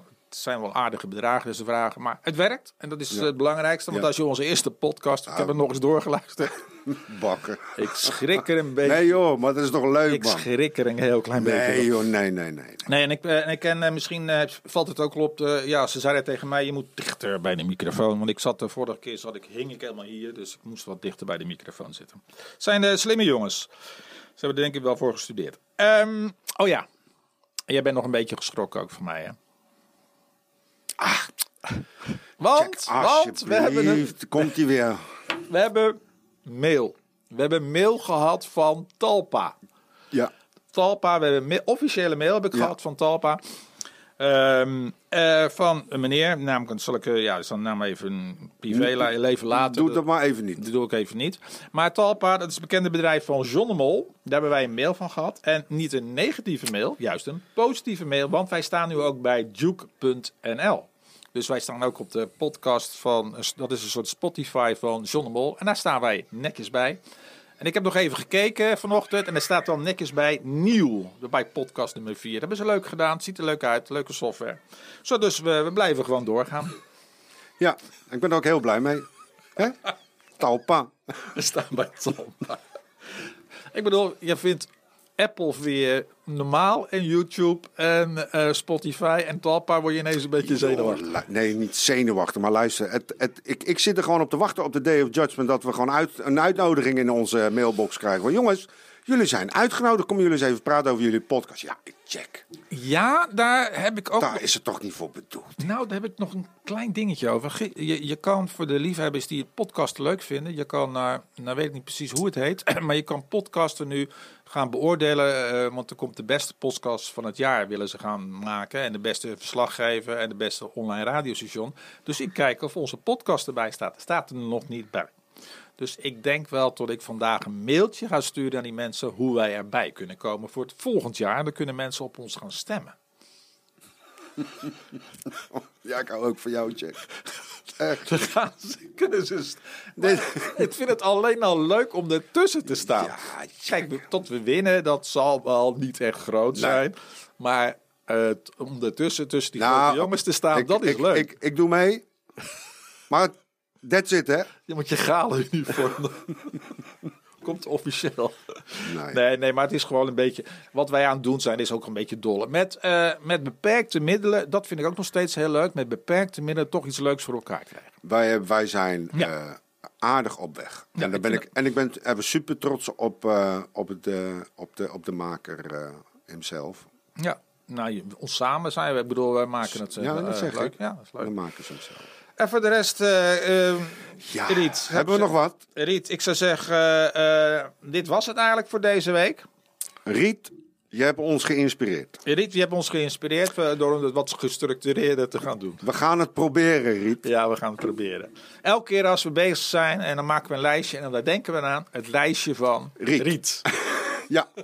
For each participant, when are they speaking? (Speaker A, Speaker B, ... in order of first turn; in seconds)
Speaker A: 0.3-6.6, 7.8-9.1, 10.1-12.0, 12.9-23.7, 24.4-26.9, 27.7-29.4, 32.4-34.5, 35.3-39.5, 40.7-43.4, 44.2-50.0, 50.6-67.0, 67.6-76.8, 81.3-82.6, 83.7-91.0, 102.7-104.4, 105.6-125.1, 125.8-133.0, 137.9-151.3, 154.7-156.7, 157.4-167.9, 171.0-171.5, 177.2-181.3, 182.4-189.4, 192.2-195.8, 197.2-203.7
Speaker B: 5.3-5.5, 6.9-10.5, 11.4-12.9, 31.0-31.3, 32.5-35.0, 49.5-50.6, 77.6-79.9, 80.4-80.9, 90.4-102.4, 104.2-105.6, 135.4-137.1, 137.8-138.1, 140.0-140.4, 142.9-143.7, 146.6-146.8, 149.6-152.1, 153.1-154.5, 158.8-159.2, 168.0-176.9, 179.8-182.1, 184.2-185.6, 190.1-192.2, 195.8-197.2, 203.0-204.5